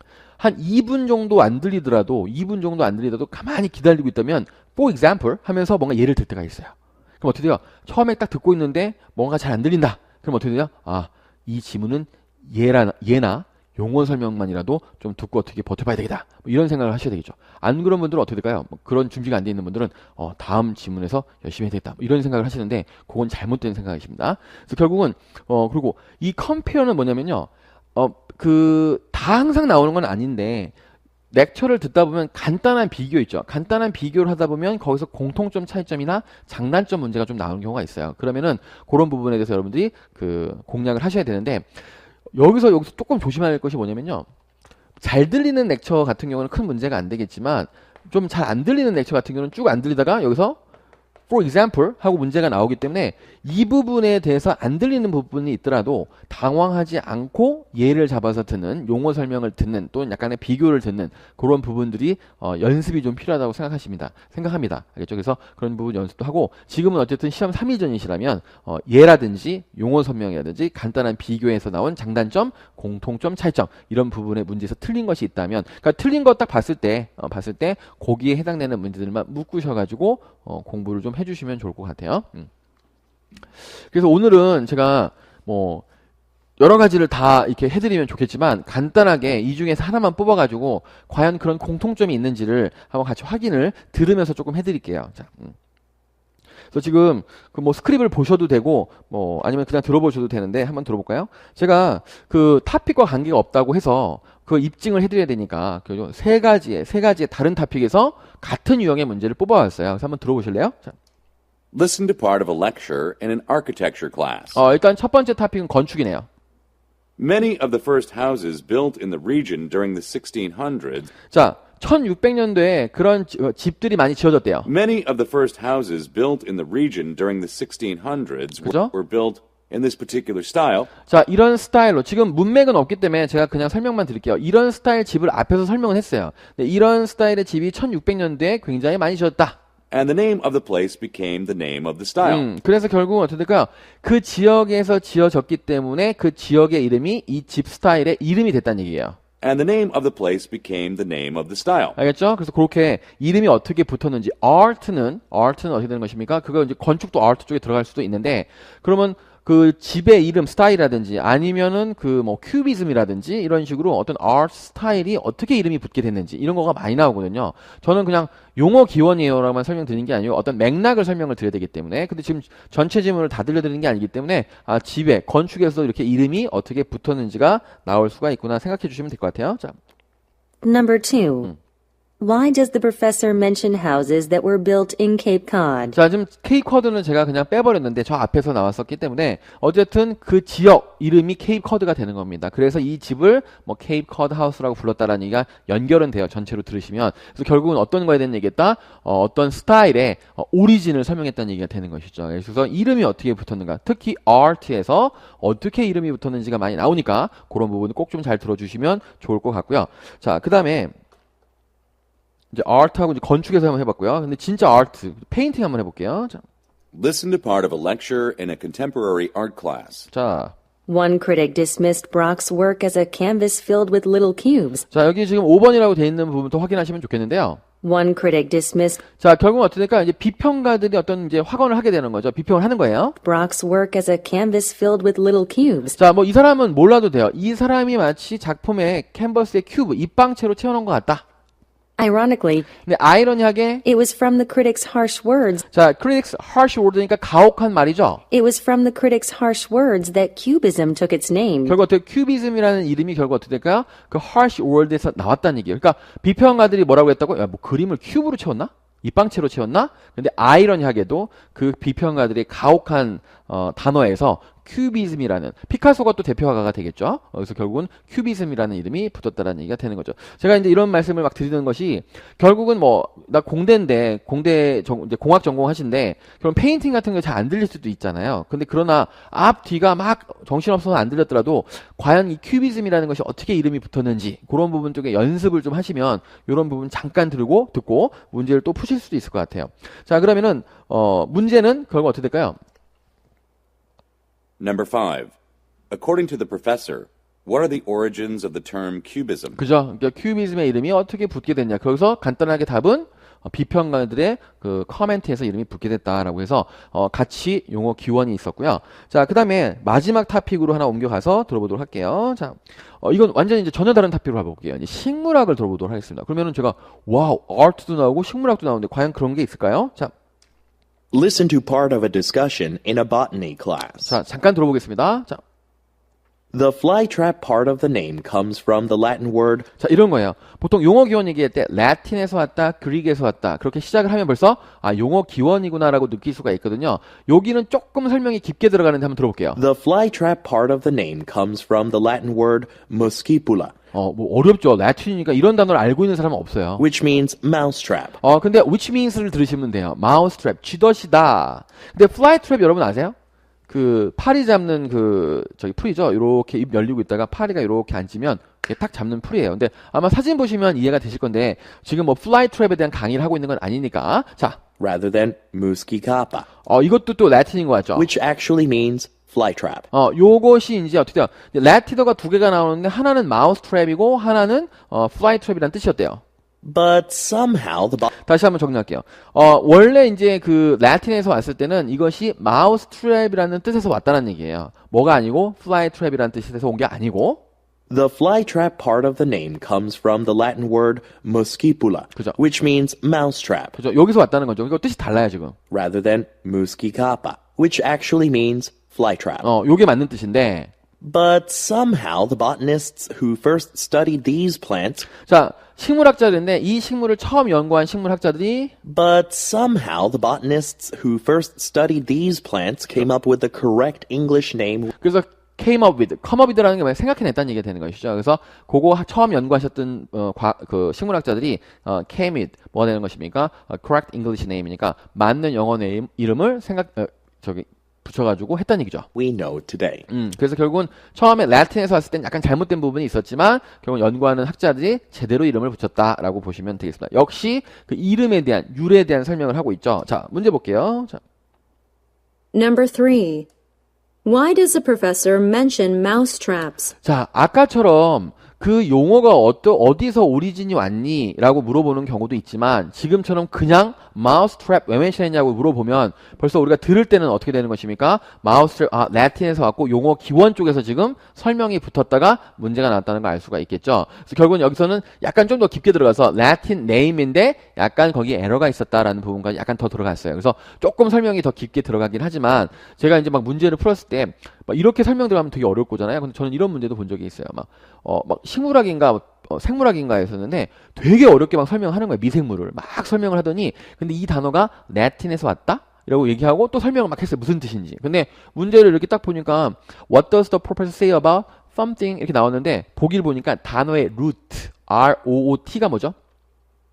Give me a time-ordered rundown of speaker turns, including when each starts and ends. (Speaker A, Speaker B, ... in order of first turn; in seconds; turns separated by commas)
Speaker A: 0.4-30.7, Speaker A: 31.3-41.7, Speaker A: 42.3-44.3, Speaker A: 45.0-50.6, Speaker A: 51.3-82.5, Speaker A: 83.8-85.8, Speaker A: 86.6-95.5, Speaker A: 96.7-111.0, Speaker B: 111.7-114.6, Speaker A: 114.5-116.3, Speaker B: 117.2-121.1, Speaker A: 121.3-124.7, Speaker B: 124.7-130.9, Speaker A: 128.6-128.9, Speaker A: 131.1-139.6, Speaker B: 139.9-142.4, Speaker A: 142.2-149.2, Speaker B: 149.4-152.0, Speaker A: 152.0-179.8, Speaker C: 180.6-181.5, Speaker C: 182.2-186.0, Speaker A: 185.9-210.9, Speaker A: 212.5-216.4, Speaker B: 216.9-220.1, Speaker A: 220.1-220.5, Speaker C: 220.9-224.8, Speaker A: 224.9-227.6, Speaker C: 227.8-229.0, Speaker A: 229.2-233.2, Speaker C: 233.2-236.0, Speaker A: 236.0-241.2, Speaker C: 242.0-242.7, Speaker A: 242.9-243.8, Speaker C: 243.8-245.7, Speaker A: 245.7-248.2, Speaker C: 248.3-251.8, Speaker A: 251.7-292.6, Speaker B: 294.6-295.3, Speaker B: 295.9-299.6, Speaker A: 299.6-320.1, Speaker D: 321.1-324.1, Speaker A: 324.0-325.4, Speaker D: 326.5-329.7, Speaker A: 329.8-339.6, Speaker D: 339.6-343.7, Speaker A: 343.9-346.9, Speaker D: 346.8-348.2, Speaker A: 348.2-353.2, Speaker A: 353.7-364.6, Speaker D: 364.8-366.5, Speaker A: 366.7-368.1, Speaker D: 367.9-369.9, Speaker A: 369.9-376.2, Speaker D: 376.6-378.1, Speaker A: 378.2-387.4, Speaker D: 387.9-393.8, Speaker A: 393.8-395.6, Speaker D: 395.7-399.5, Speaker A: 399.4-400.7, Speaker D: 401.0-405.1, Speaker A: 405.3-408.7, Speaker D: 408.8-414.9, Speaker A: 415.0-429.1, Speaker D: 429.1-430.1, Speaker A: 430.1-441.2, Speaker E: 442.5-443.5, Speaker E: 444.2-446.9, Speaker A: 447.0-496.1